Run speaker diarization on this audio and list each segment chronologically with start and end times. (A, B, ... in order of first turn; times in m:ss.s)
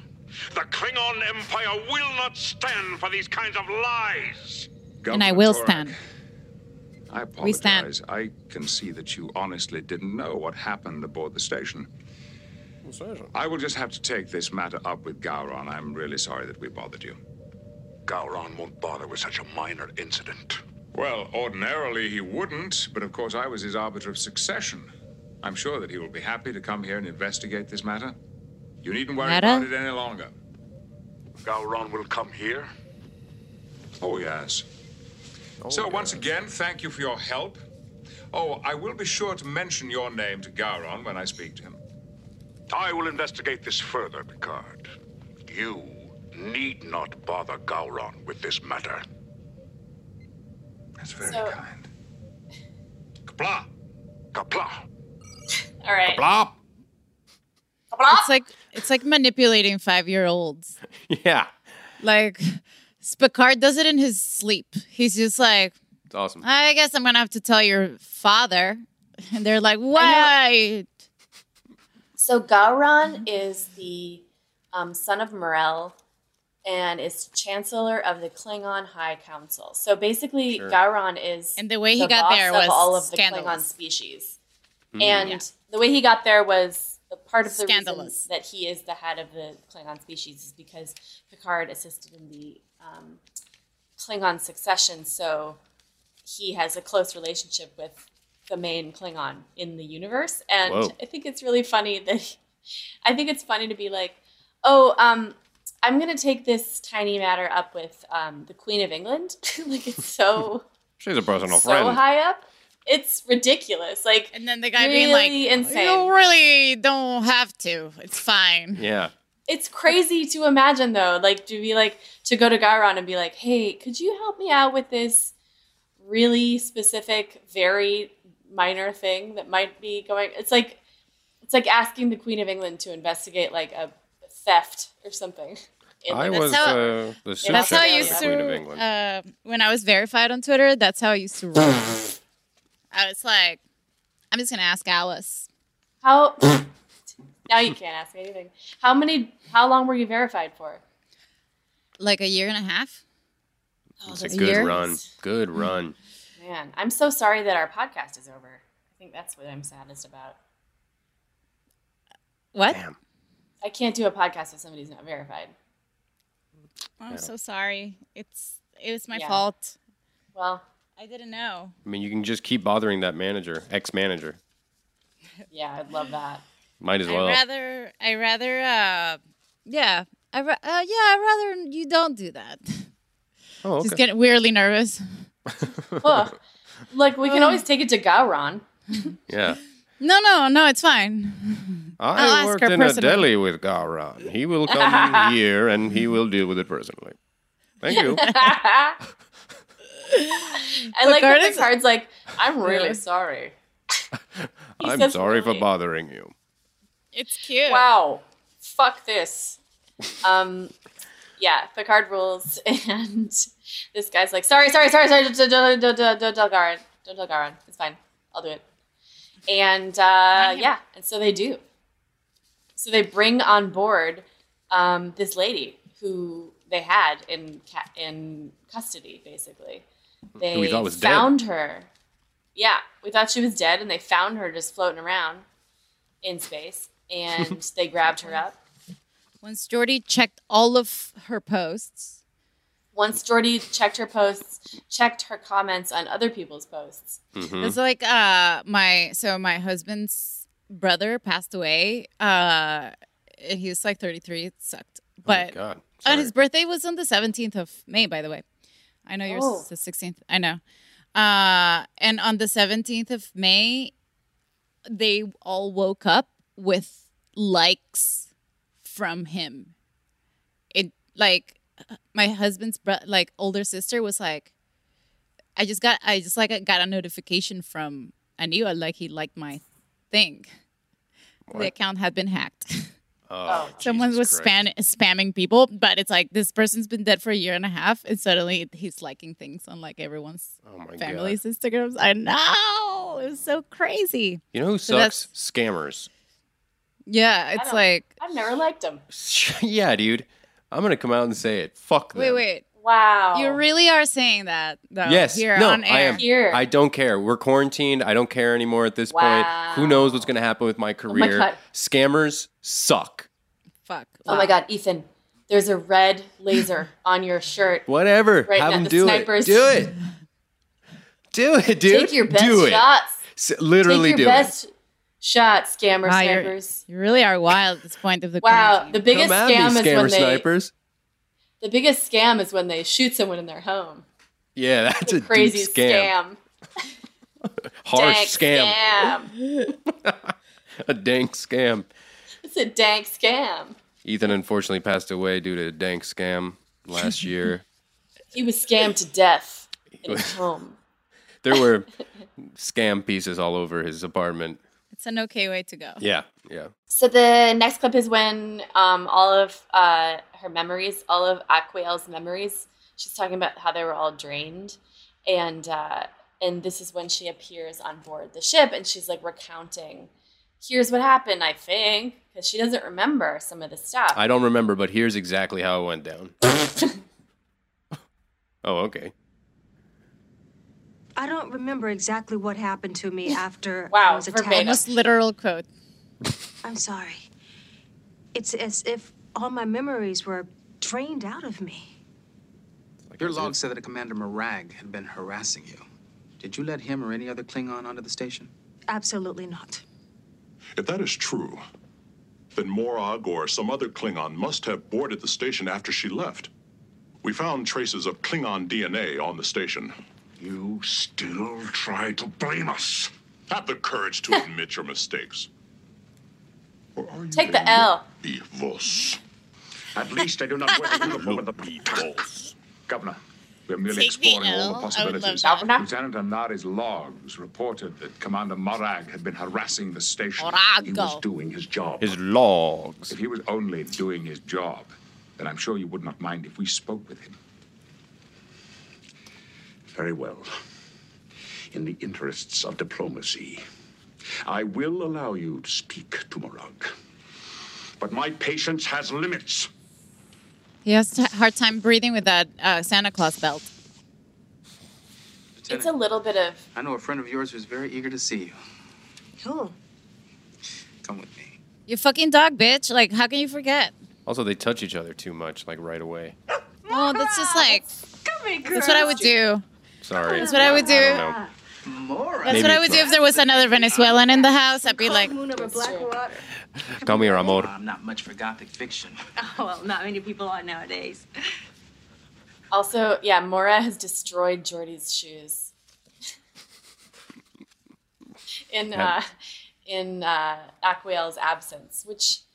0:00.5-0:04.7 A
0:05.0-0:06.0 B
0:05.1-0:05.9 C
0:07.1-0:11.9 B
0:07.4-0:07.9 C
0:12.8-0:13.3 D
0:13.3-0:17.2 B
0:18.0-0:20.6 A
0:20.9-0:24.9 B
0:25.4-0:28.2 B
0:28.8-0:30.3 B
0:29.2-0:29.6 C
0:31.4-0:32.7 A
0:34.0-0:34.6 B
0:35.6-0:36.2 D
0:35.7-0:37.6 B
0:38.3-0:41.8 B
0:42.7-0:44.8 A
0:45.5-0:49.0 A
0:51.0-0:51.8 B
0:51.2-0:51.6 E
0:53.3-0:53.7 A
0:54.3-0:54.7 A
0:55.8-0:56.2 E
0:56.1-0:56.5 A
0:57.9-0:58.3 E
0:58.1-1:00.8 C
1:01.1-1:01.5 D
1:02.0-1:05.7 C
1:06.1-1:06.4 D
1:06.4-1:10.9 C
1:10.0-1:10.3 E
1:12.2-1:16.0 E
1:16.6-1:24.4 E
1:20.5-1:20.8 D
1:21.6-1:23.7 C
1:24.9-1:25.4 D
1:25.0-1:33.2 E
1:27.4-1:28.2 C
1:34.0-1:35.6 E
1:36.2-1:42.4 E
1:40.6-1:40.9 D
1:43.0-1:50.6 E
1:51.0-1:52.0 D
1:51.5-1:56.1 E
1:54.3-1:58.8 C
1:58.7-1:59.1 D
1:59.5-2:05.3 E
2:06.0-2:10.8 E
2:11.4-2:18.3 E
2:16.1-2:18.8 D
2:16.3-2:16.8 C
2:17.5-2:22.2 C
2:22.9-2:23.6 C
2:24.3-2:25.5 C
2:26.0-2:26.7 E
2:27.5-2:30.8 E
2:32.0-2:33.0 C
2:34.0-2:35.0 E
2:34.0-2:36.0 D
2:34.3-2:34.8 C
2:36.4-2:40.4 E
2:42.5-2:42.8 C
2:42.7-2:43.0 D
2:43.6-2:45.5 E
2:47.0-2:49.7 C
2:49.1-2:49.4 E
2:50.3-2:50.6 E
2:51.0-2:51.7 C
2:51.8-2:54.4 D
2:55.5-2:56.4 E
2:56.8-2:57.4 D
2:57.0-3:02.9 C
3:03.6-3:04.0 D
3:03.8-3:05.0 C
3:05.6-3:06.2 D
3:06.0-3:06.4 E
3:06.9-3:09.1 E
3:07.3-3:07.6 C
3:09.3-3:09.6 D
3:10.0-3:13.3 C
3:12.0-3:17.2 D
3:14.7-3:15.3 E
3:17.8-3:18.5 D
3:17.9-3:19.0 E
3:20.0-3:21.7 C
3:20.8-3:23.5 E
3:22.6-3:23.0 C
3:24.3-3:26.3 D
3:24.8-3:25.6 E
3:27.1-3:27.9 C
3:27.6-3:29.6 E
3:30.2-3:30.7 E
3:31.4-3:38.6 E
3:39.5-3:41.6 E
3:40.3-3:40.7 C
3:42.8-3:49.8 E
3:50.4-3:51.3 D
3:50.4-3:51.9 E
3:52.6-3:55.4 E
3:56.2-3:58.6 E
3:59.4-4:02.2 C
4:02.9-4:07.2 E
4:07.4-4:07.8 D
4:07.6-4:18.4 C
4:15.2-4:16.3 D
4:19.1-4:20.6 C
4:19.3-4:19.7 E
4:21.1-4:23.9 C
4:24.9-4:28.3 C
4:28.8-4:29.7 C
4:30.7-4:31.6 C
4:32.1-4:34.5 C
4:35.6-4:40.5 C
4:41.5-4:42.9 C
4:43.3-4:44.5 D
4:43.4-4:44.0 E
4:43.8-4:55.2 C
4:50.6-4:51.4 D
4:54.5-4:56.1 D
4:57.1-4:58.1 C
4:57.5-4:59.0 E
4:59.1-5:02.4 D
5:02.1-5:02.6 C
5:02.8-5:03.6 E
5:03.3-5:06.2 C
5:05.0-5:13.3 D
5:06.2-5:06.6 E
5:09.1-5:10.3 E
5:11.1-5:11.6 E
5:13.9-5:14.5 C
5:14.2-5:17.9 E
5:17.9-5:20.0 D
5:18.4-5:19.7 E
5:21.3-5:24.5 D
5:21.8-5:23.2 E
5:23.8-5:24.7 E
5:25.2-5:26.8 E
5:26.0-5:29.0 C
5:28.4-5:30.4 E
5:29.0-5:30.7 D
5:31.6-5:34.0 E
5:34.6-5:36.1 D
5:35.0-5:36.4 E
5:37.8-5:38.8 D
5:37.9-5:39.3 E
5:39.6-5:41.9 D
5:42.4-5:43.8 E
5:44.0-5:47.6 D
5:48.3-5:50.8 E
5:50.0-5:50.4 D
5:51.4-5:51.9 D
5:52.5-5:54.6 D
5:54.9-5:56.0 C
5:56.0-5:56.7 D
5:56.9-6:10.1 E
6:10.6-6:14.2 E
6:14.1-6:16.3 D
6:18.6-6:19.1 D
6:21.2-6:24.8 F
6:23.9-6:24.8 E
6:24.5-6:25.6 C
6:26.6-6:27.2 F
6:28.3-6:31.9 F
6:33.1-6:33.6 D
6:33.2-6:35.8 G
6:36.4-6:38.5 G
6:38.9-6:39.8 F
6:40.8-6:41.6 H
6:42.5-6:46.5 H
6:47.2-6:49.9 H
6:50.4-6:51.5 B
6:51.6-6:53.1 A
6:53.5-6:55.5 H
6:57.0-6:59.2 H
6:57.3-6:58.0 E
6:59.9-7:02.1 B
7:01.0-7:02.3 H
7:02.9-7:12.2 B
7:03.9-7:05.7 C
7:05.4-7:05.9 E
7:10.4-7:11.2 C
7:12.0-7:13.1 D
7:13.1-7:17.4 B
7:19.9-7:20.5 B
7:21.7-7:23.6 B
7:24.5-7:26.9 B
7:28.0-7:29.6 B
7:30.8-7:33.7 C
7:35.6-7:36.0 G
7:35.7-7:36.6 E
7:36.7-7:38.6 G
7:39.4-7:39.8 F
7:41.0-7:41.6 G
7:41.9-7:43.9 C
7:44.2-7:46.4 D
7:46.9-7:49.3 F
7:46.9-7:47.8 C
7:48.7-7:49.6 C
7:50.0-7:51.3 D
7:50.1-7:51.5 F
7:50.3-7:51.3 C
7:51.8-7:54.2 G
7:52.4-7:53.1 D
7:52.4-7:55.4 C
7:53.6-7:56.5 F
7:55.6-7:56.1 E
7:57.0-7:57.7 D
7:57.1-7:57.5 F
7:57.2-7:59.2 G
7:59.4-8:01.3 F
8:02.7-8:05.7 E
8:08.7-8:09.3 E
8:09.8-8:12.4 E